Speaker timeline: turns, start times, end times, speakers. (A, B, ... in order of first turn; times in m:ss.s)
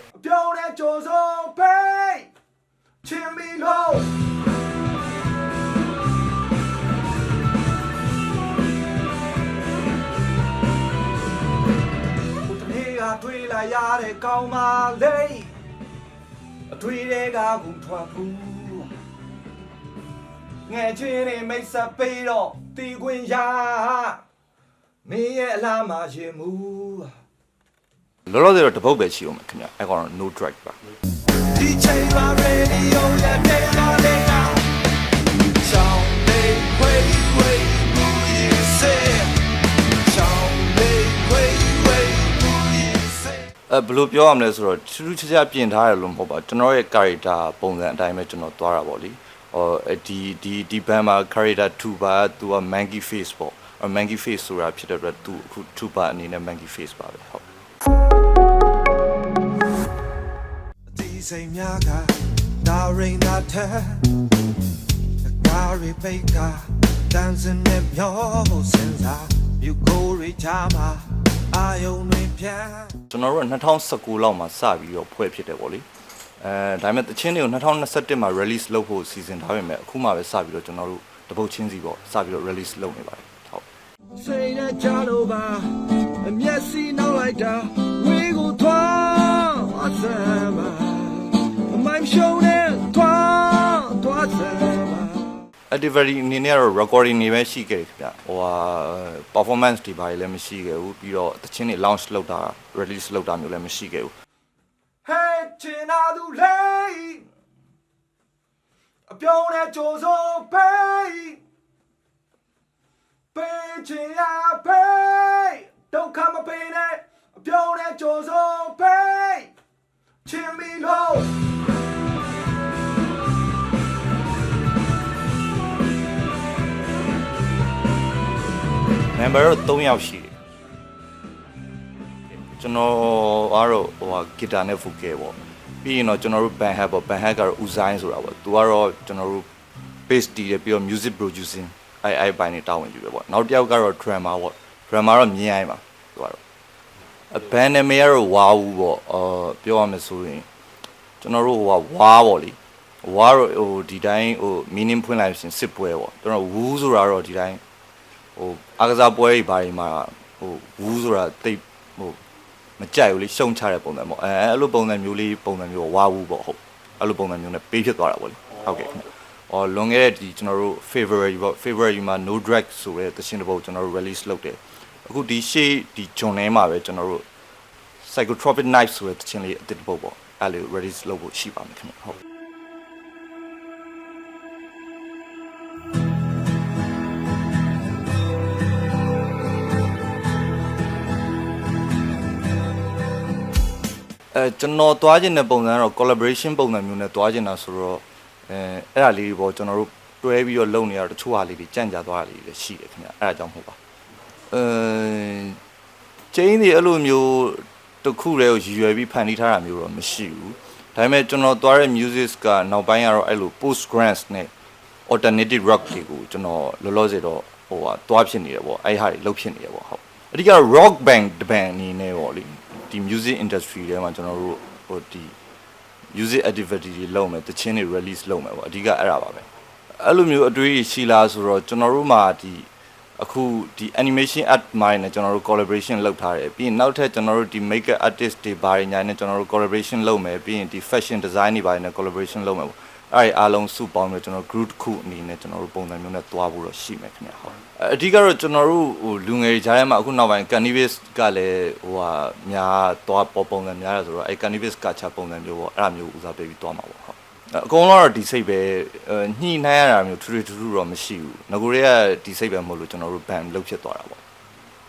0:00.2-0:02.3 A
0:03.0-0:04.1 A
0:12.4-0:15.5 A
0:16.7-0:18.5 A
0:20.7-0:24.2 A
0:25.0-0:27.1 A
0:28.2-0:30.8 B
0:31.4-0:34.8 A
0:35.5-0:43.5 A
0:43.7-0:57.4 B
1:00.9-1:04.2 A
1:05.2-1:13.0 A
1:13.1-1:15.8 B
1:16.4-1:23.6 B
1:24.1-1:35.4 A
1:35.7-1:44.1 B
1:45.0-1:47.2 A
1:49.1-1:51.4 A
1:53.3-1:59.5 A
2:00.2-2:01.4 A
2:09.1-2:10.3 B
2:12.6-2:19.5 B
2:20.0-2:26.4 B
2:27.3-2:30.4 B
2:31.2-2:37.6 B
2:38.4-2:42.2 B
2:42.8-2:57.2 B
2:58.0-3:02.2 B
3:14.3-3:23.8 B
3:24.5-3:25.6 B
3:26.3-3:34.5 B
3:35.1-3:45.3 B
3:46.1-3:49.4 B
3:50.0-4:24.2 B